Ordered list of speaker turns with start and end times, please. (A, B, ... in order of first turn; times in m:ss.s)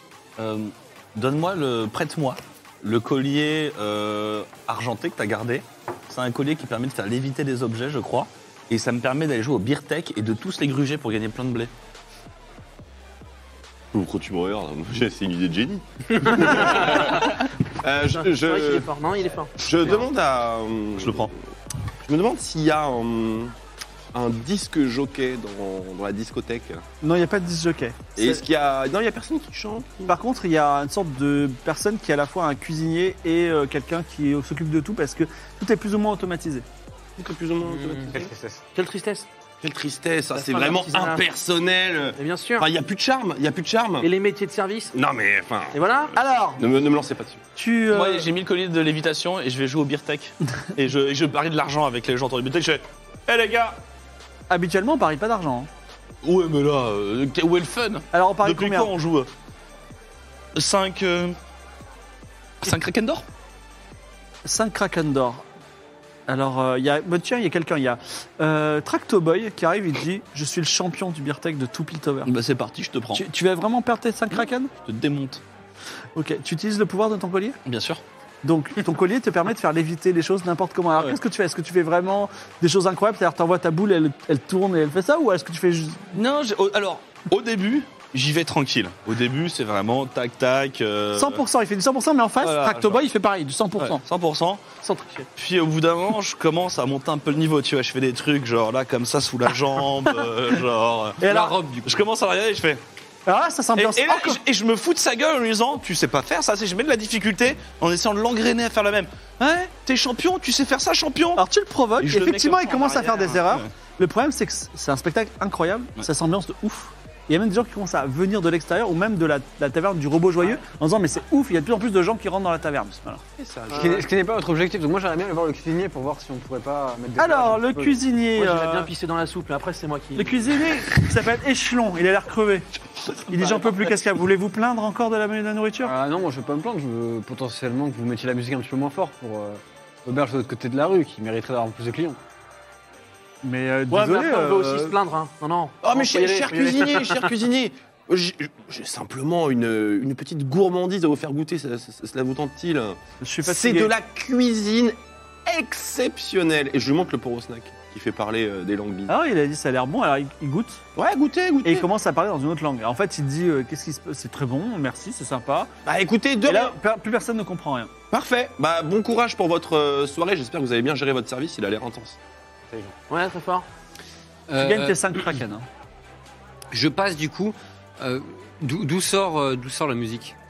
0:00.4-0:11.7 A
0:13.9-0:17.3 B
0:16.5-0:17.1 C
0:17.8-0:18.9 B
0:18.1-0:20.0 C
0:19.6-0:21.3 B
0:21.0-0:21.3 A
0:22.0-0:23.5 B
0:24.1-0:26.8 B
0:27.0-0:28.4 D
0:28.1-0:30.2 B
0:30.1-0:36.6 D
0:37.2-0:38.3 B
0:37.6-0:38.1 E
0:38.1-0:38.6 F
0:38.7-0:39.3 C
0:39.6-0:44.1 B
0:40.3-0:41.2 C
0:42.2-0:42.7 C
0:44.0-0:44.9 C
0:44.9-0:45.8 B
0:45.7-0:46.1 C
0:46.1-0:46.6 D
0:46.6-0:47.4 B
0:47.6-0:48.3 D
0:47.9-0:53.8 A
0:54.5-0:55.7 D
0:56.2-0:59.3 A
0:58.1-0:58.9 D
1:00.5-1:01.4 A
1:02.6-1:03.2 A
1:04.4-1:05.4 D
1:06.3-1:12.3 D
1:12.2-1:13.2 A
1:13.1-1:14.7 D
1:14.7-1:15.4 A
1:16.2-1:17.6 D
1:17.6-1:18.0 A
1:18.4-1:26.2 D
1:26.1-1:31.4 A
1:31.1-1:34.0 D
1:32.4-1:33.0 A
1:33.8-1:34.6 A
1:34.8-1:35.3 C
1:35.4-1:41.2 A
1:41.2-1:41.6 D
1:41.2-1:42.0 E
1:41.8-1:42.8 A
1:43.2-1:44.4 D
1:43.8-1:51.4 A
1:51.4-2:03.2 D
1:52.0-1:53.7 A
2:03.4-2:04.0 B
2:03.7-2:08.0 F
2:03.7-2:04.0 C
2:07.2-2:08.9 D
2:08.3-2:10.4 C
2:10.2-2:12.7 D
2:13.3-2:15.9 D
2:15.8-2:22.2 F
2:23.4-2:24.9 D
2:23.9-2:27.2 C
2:25.8-2:39.1 B
2:33.2-2:33.9 D
2:39.1-2:40.8 D
2:41.0-2:41.9 B
2:41.6-2:45.7 D
2:45.8-2:46.8 B
2:46.4-2:47.9 D
2:48.1-2:52.2 B
2:53.1-2:53.6 C
2:54.5-2:55.3 E
2:54.6-2:55.6 D
2:56.7-3:00.3 E